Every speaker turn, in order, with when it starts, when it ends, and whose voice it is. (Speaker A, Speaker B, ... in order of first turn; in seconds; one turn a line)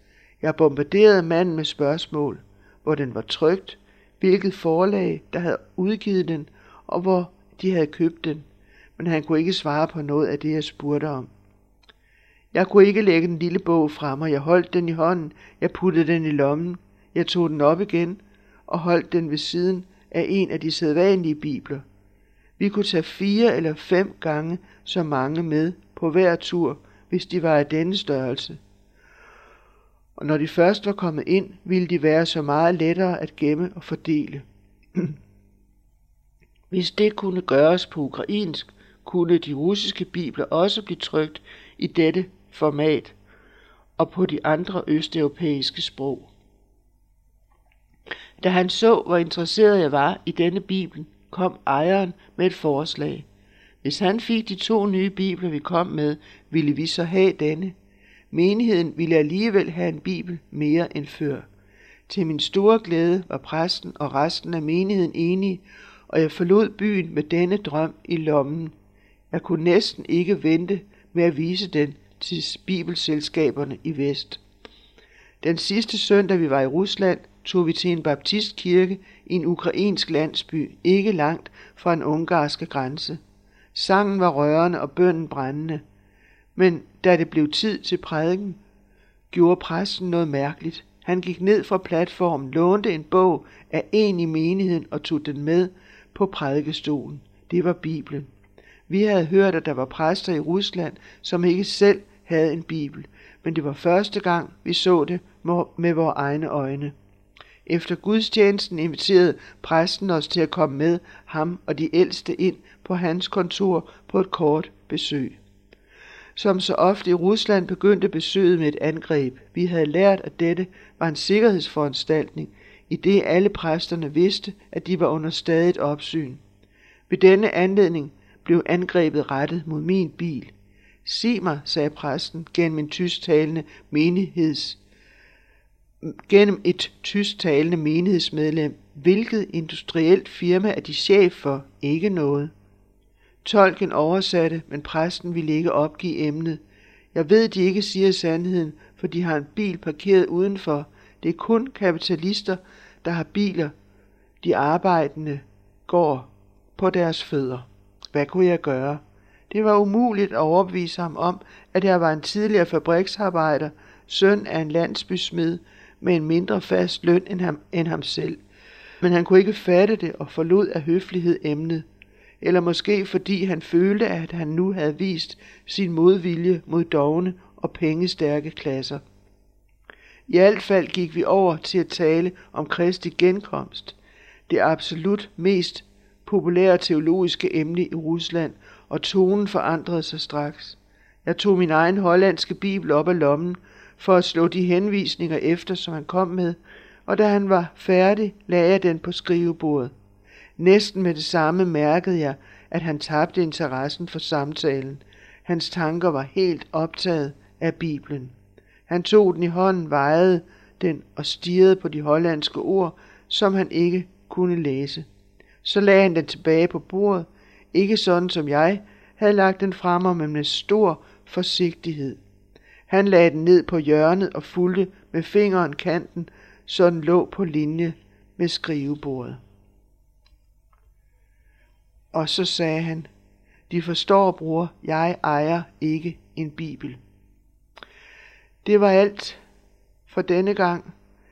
Speaker A: 0.4-8.4
Speaker A: 9.0-11.3
Speaker A: 12.5-21.9
Speaker A: 22.6-28.6
Speaker A: 30.2-34.4
Speaker A: 36.7-43.1
Speaker A: 44.0-46.3
Speaker A: 48.4-53.3
Speaker A: 53.8-57.7
Speaker A: 58.3-61.5
Speaker A: 62.1-68.7
Speaker A: 69.3-74.4
Speaker A: 75.4-83.2
Speaker A: 83.7-85.8
Speaker A: 86.6-88.6
Speaker A: 89.3-98.3
Speaker A: 98.9-106.9
Speaker A: 107.7-115.4
Speaker A: 116.4-126.4
Speaker A: 127.1-130.5
Speaker A: 131.1-134.8
Speaker A: 136.0-142.5
Speaker A: 143.4-146.6
Speaker A: 147.1-153.7
Speaker A: 154.4-168.4
Speaker A: 169.0-171.9
Speaker A: 172.4-179.0
Speaker A: 180.3-183.9
Speaker A: 184.5-199.9
Speaker A: 200.6-208.3
Speaker A: 208.9-215.1
Speaker A: 215.6-222.2
Speaker A: 222.9-229.4
Speaker A: 232.1-233.1
Speaker A: 233.7-237.0
Speaker A: 238.6-239.4
Speaker A: 240.1-240.9